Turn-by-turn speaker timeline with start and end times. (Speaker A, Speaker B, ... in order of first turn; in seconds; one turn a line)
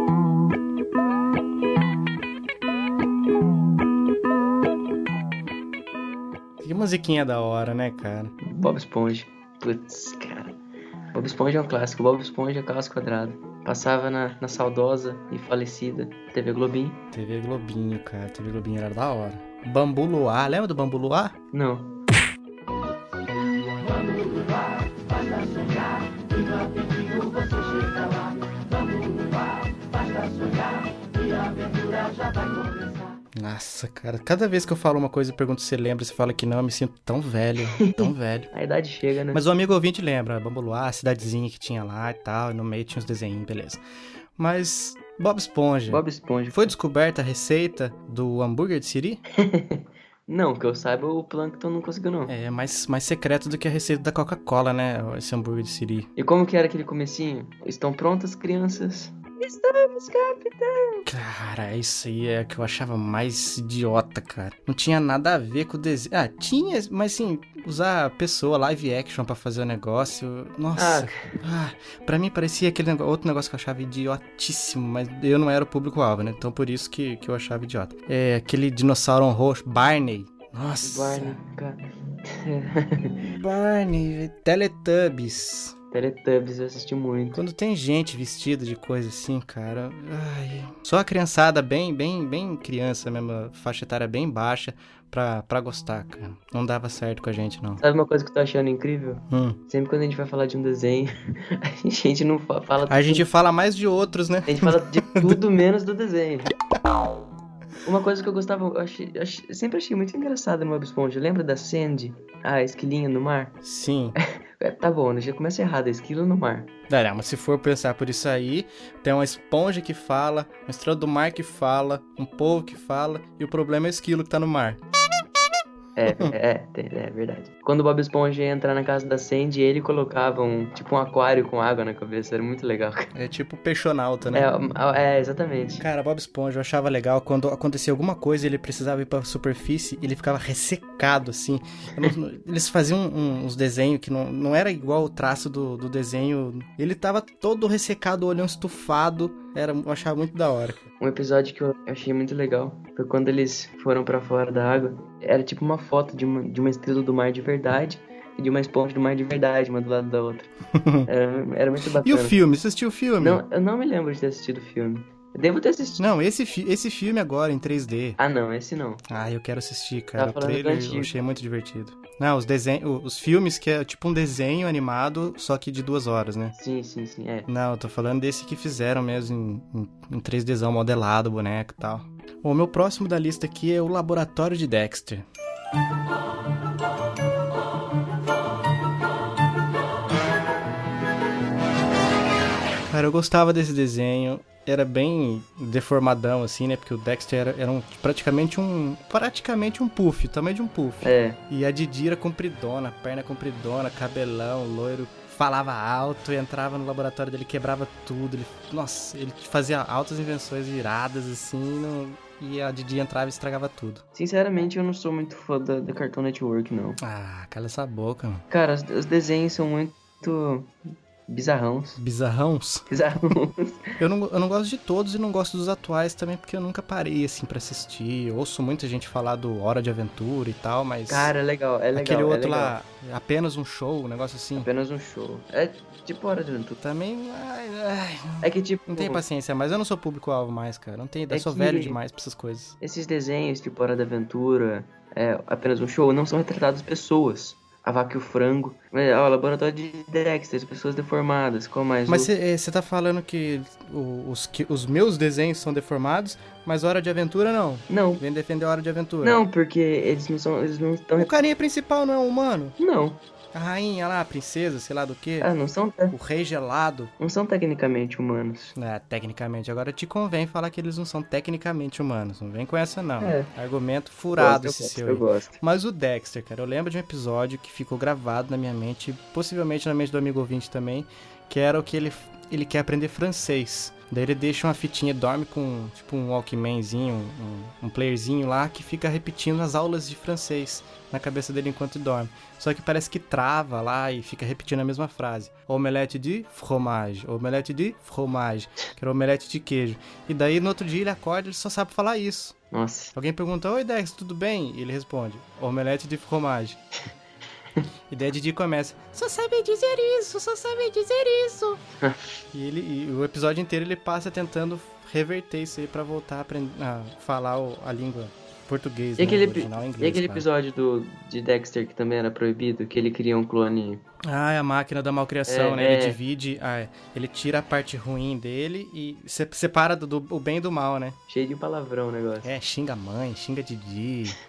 Speaker A: 6.6-8.3
Speaker B: 8.4-10.6
Speaker B: 11.1-17.0
Speaker A: 17.1-21.4
Speaker B: 21.5-21.9
Speaker A: 33.4-38.5
Speaker B: 37.8-39.4
Speaker A: 39.3-43.8
Speaker A: 44.4-49.2
Speaker B: 45.9-46.7
Speaker B: 49.4-52.3
Speaker A: 52.3-56.1
Speaker B: 56.2-61.1
Speaker A: 61.1-81.4
Speaker B: 70.8-71.4
Speaker B: 80.8-83.2
Speaker A: 83.2-85.8
Speaker B: 85.9-87.4
Speaker A: 87.3-97.8
Speaker B: 97.8-103.3
Speaker A: 99.3-99.6
Speaker A: 102.9-105.4
Speaker B: 104.5-106.5
Speaker B: 107.8-113.5
Speaker A: 113.6-114.2
Speaker B: 114.6-116.7
Speaker A: 116.9-124.8
Speaker B: 126.0-133.1
Speaker A: 126.1-126.3
Speaker A: 133.1-134.5
Speaker B: 134.3-135.8
Speaker A: 135.8-150.8
Speaker B: 151.0-160.5
Speaker A: 160.8-161.1
Speaker B: 161.1-162.4
Speaker A: 162.0-163.4
Speaker B: 163.2-166.0
Speaker A: 166.0-168.2
Speaker B: 168.2-169.0
Speaker A: 169.1-176.6
Speaker B: 170.2-171.1
Speaker B: 176.6-177.5
Speaker A: 177.5-185.2
Speaker A: 192.9-214.0
Speaker B: 201.0-201.4
Speaker B: 214.2-217.0
Speaker A: 217.0-218.4
Speaker B: 218.5-220.8
Speaker B: 221.3-222.0
Speaker A: 222.0-222.8
Speaker B: 222.9-223.9
Speaker A: 224.0-231.3
Speaker B: 231.1-232.8
Speaker A: 231.9-234.7
Speaker B: 234.6-236.8
Speaker A: 236.8-242.8
Speaker B: 238.4-239.2
Speaker B: 241.3-242.0
Speaker B: 242.8-252.3
Speaker A: 252.1-259.4
Speaker B: 257.9-258.2
Speaker B: 259.2-261.3
Speaker A: 261.2-262.8
Speaker B: 262.8-263.2
Speaker A: 263.5-265.5
Speaker B: 265.4-266.1
Speaker A: 266.1-267.1
Speaker B: 267.2-268.8
Speaker A: 268.8-302.6
Speaker B: 273.2-273.5
Speaker B: 274.3-275.6
Speaker B: 302.7-303.1
Speaker A: 303.1-306.8
Speaker A: 308.1-311.8
Speaker B: 312.0-312.4
Speaker A: 312.5-320.5
Speaker B: 319.2-324.0
Speaker A: 324.3-331.2
Speaker B: 325.5-326.2
Speaker B: 331.3-332.5
Speaker A: 332.4-334.4